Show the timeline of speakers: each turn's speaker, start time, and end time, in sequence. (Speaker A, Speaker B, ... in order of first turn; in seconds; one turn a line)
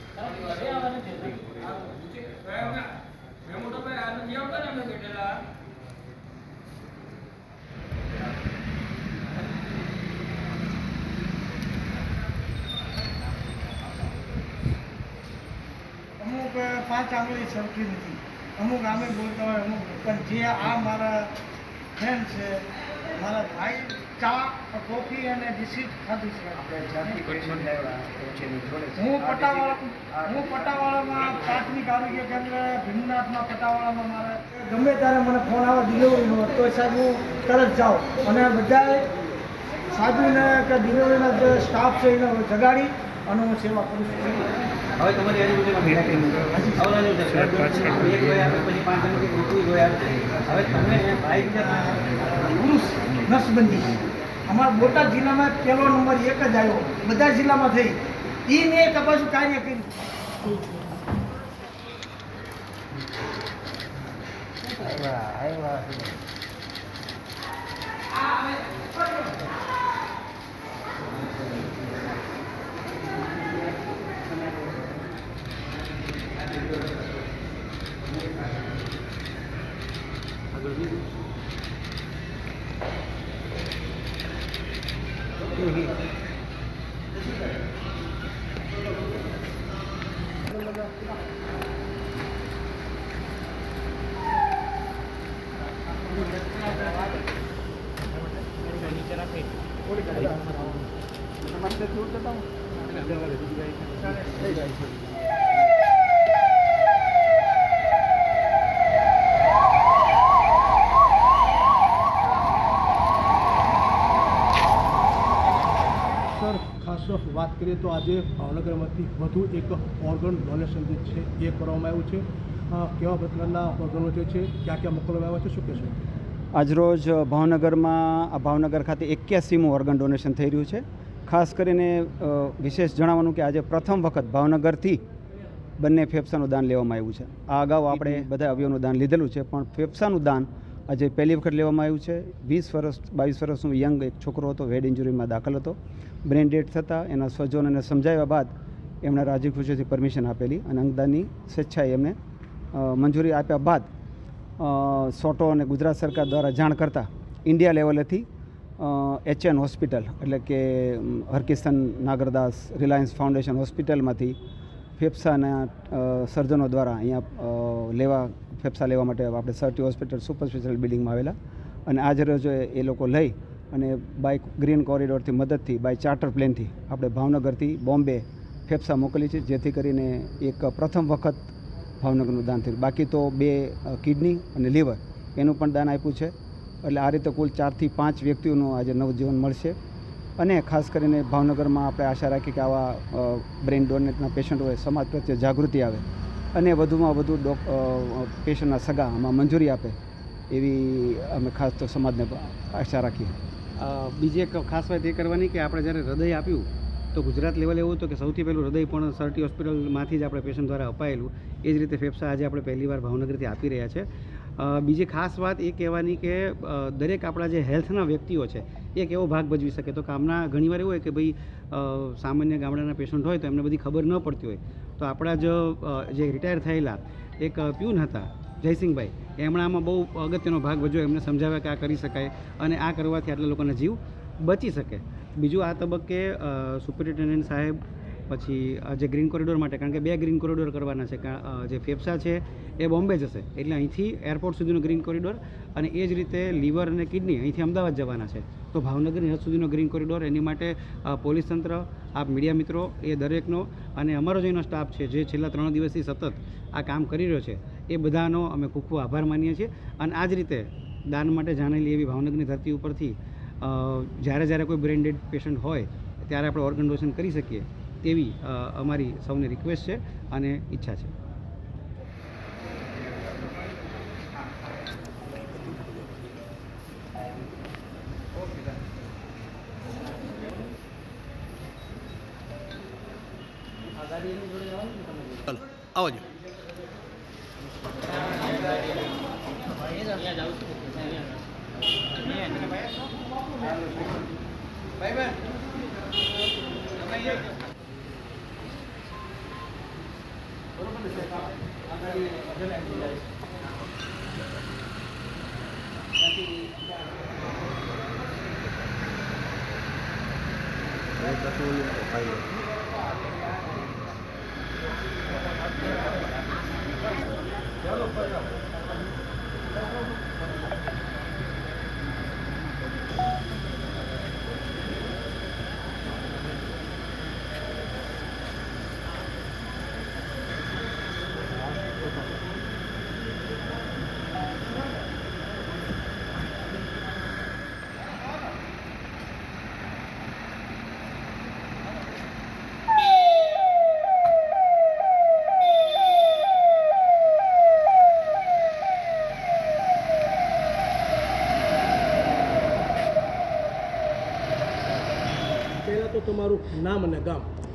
Speaker A: 0.6-1.2
Speaker A: 4.1-5.1
Speaker B: 16.2-21.3
Speaker B: 22.0-26.6
Speaker C: 26.6-30.6
Speaker B: 29.0-39.0
Speaker B: 39.9-44.5
Speaker A: 45.0-52.3
Speaker B: 46.5-46.9
Speaker B: 52.3-59.9
Speaker C: 65.3-65.7
Speaker A: 80.6-81.0
Speaker D: 90.6-90.9
Speaker C: 100.0-100.5
Speaker C: 101.4-102.5
Speaker C: 104.3-104.9
Speaker D: 116.3-126.0
Speaker C: 126.5-135.0
Speaker C: 135.8-148.5
Speaker C: 149.0-152.2
Speaker C: 152.7-153.9
Speaker C: 154.6-158.3
Speaker C: 158.8-164.4
Speaker C: 165.0-171.4
Speaker C: 171.9-186.3
Speaker C: 186.8-189.8
Speaker C: 190.4-200.0
Speaker C: 200.5-203.4
Speaker A: 203.8-214.1
Speaker A: 214.6-271.1
Speaker A: 284.1-285.1
Speaker C: 311.6-312.3
Speaker D: 355.8-357.5